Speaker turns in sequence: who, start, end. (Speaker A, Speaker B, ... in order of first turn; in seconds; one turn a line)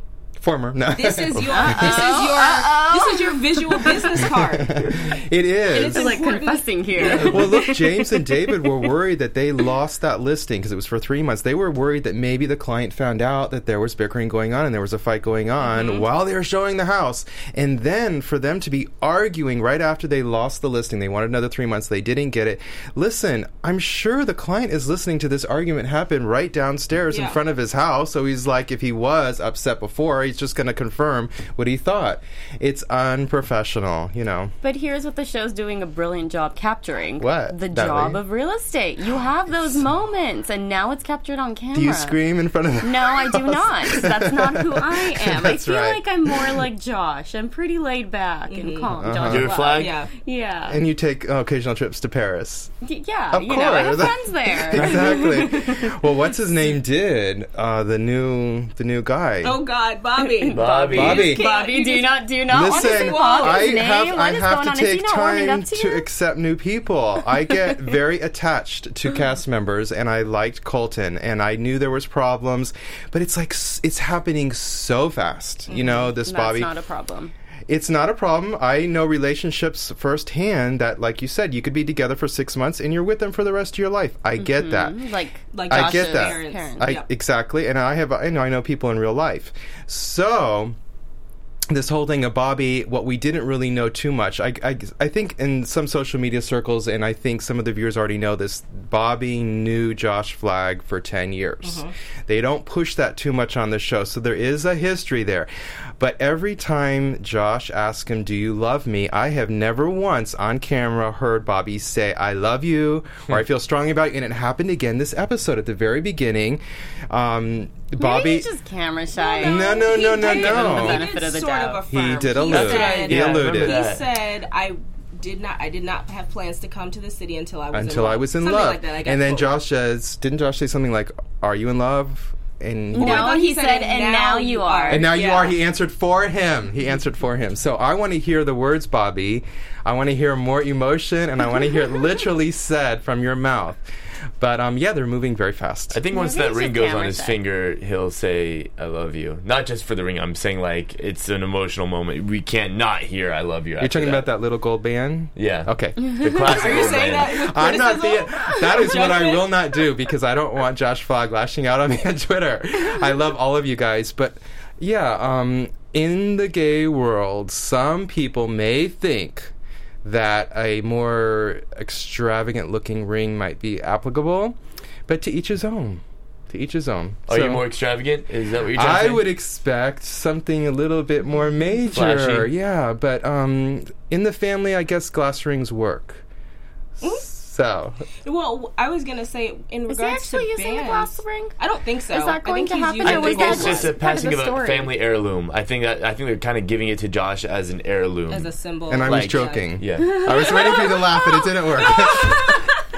Speaker A: 0.4-2.2
Speaker B: 0.9-5.0
Speaker C: 1.5-3.9
Speaker A: 4.2-6.1
Speaker B: 5.7-7.6
Speaker C: 5.8-8.3
Speaker A: 7.0-34.5
Speaker B: 15.6-16.0
Speaker B: 27.1-27.4
Speaker C: 34.6-42.2
Speaker A: 37.2-38.2
Speaker A: 39.5-39.8
Speaker A: 41.7-46.7
Speaker C: 42.8-50.8
Speaker B: 48.5-50.1
Speaker A: 48.9-49.5
Speaker D: 49.3-49.9
Speaker A: 50.7-52.7
Speaker C: 52.8-56.0
Speaker A: 53.3-59.6
Speaker B: 59.4-63.9
Speaker C: 60.4-66.0
Speaker D: 60.5-61.3
Speaker A: 60.9-61.4
Speaker A: 62.5-76.8
Speaker B: 75.7-76.1
Speaker C: 76.1-77.3
Speaker A: 77.7-85.0
Speaker C: 84.4-86.9
Speaker B: 85.5-87.1
Speaker A: 85.7-90.8
Speaker A: 91.7-118.5
Speaker B: 101.6-101.9
Speaker C: 118.0-121.8
Speaker B: 119.2-129.6
Speaker A: 119.4-121.1
Speaker A: 121.9-123.8
Speaker D: 122.5-124.0
Speaker A: 127.7-133.3
Speaker C: 132.9-135.1
Speaker B: 132.9-135.6
Speaker A: 134.9-143.8
Speaker A: 144.4-146.0
Speaker D: 145.9-154.3
Speaker C: 146.1-147.4
Speaker A: 153.8-169.5
Speaker D: 155.4-157.3
Speaker B: 156.4-159.5
Speaker A: 170.0-174.6
Speaker A: 175.1-177.6
Speaker D: 177.3-179.3
Speaker A: 178.7-186.2
Speaker D: 181.9-182.5
Speaker A: 187.0-188.0
Speaker B: 187.0-187.3
Speaker B: 188.2-193.9
Speaker C: 189.9-191.5
Speaker C: 192.1-194.9
Speaker D: 193.0-198.5
Speaker B: 198.3-199.7
Speaker A: 198.9-202.6
Speaker D: 199.1-200.5
Speaker C: 200.0-202.7
Speaker B: 201.8-202.2